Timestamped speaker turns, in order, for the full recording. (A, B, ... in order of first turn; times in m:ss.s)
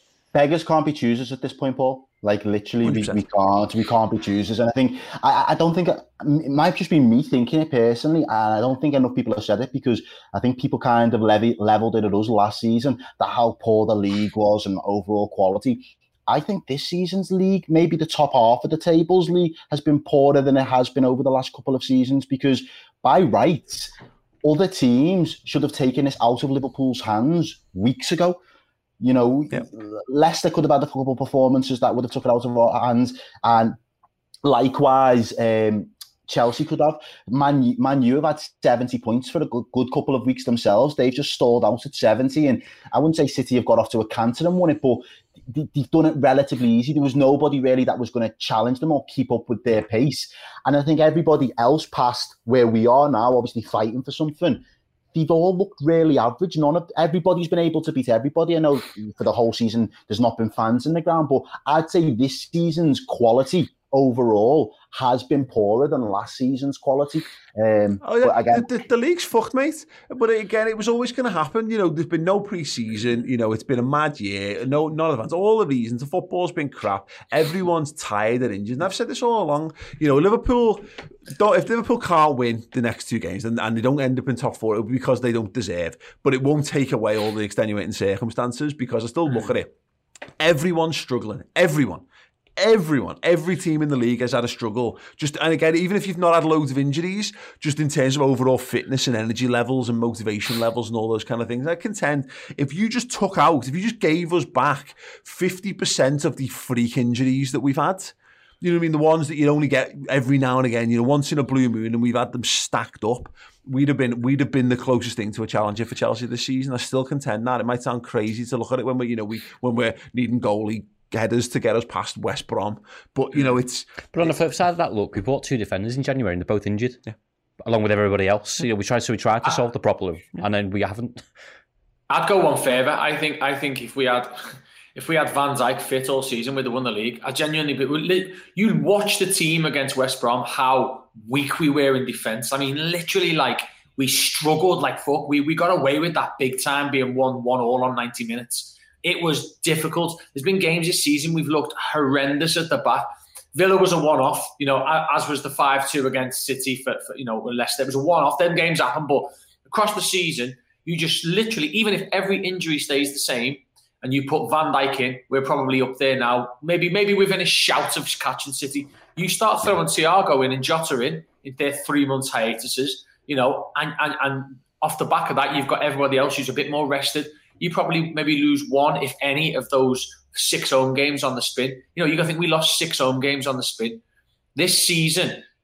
0:00.3-0:28.4 A
0:02.8-0:03.2 B
0:29.0-0:33.8 A
0:34.4-0:54.6 A
0:55.1-1:08.7 A
1:08.0-1:29.7 B
1:29.3-1:29.6 C
1:30.4-1:32.0 B
1:32.6-2:04.3 B
2:04.1-2:07.0 D
2:07.6-2:11.2 D
2:12.1-3:04.0 C
3:04.6-3:05.4 C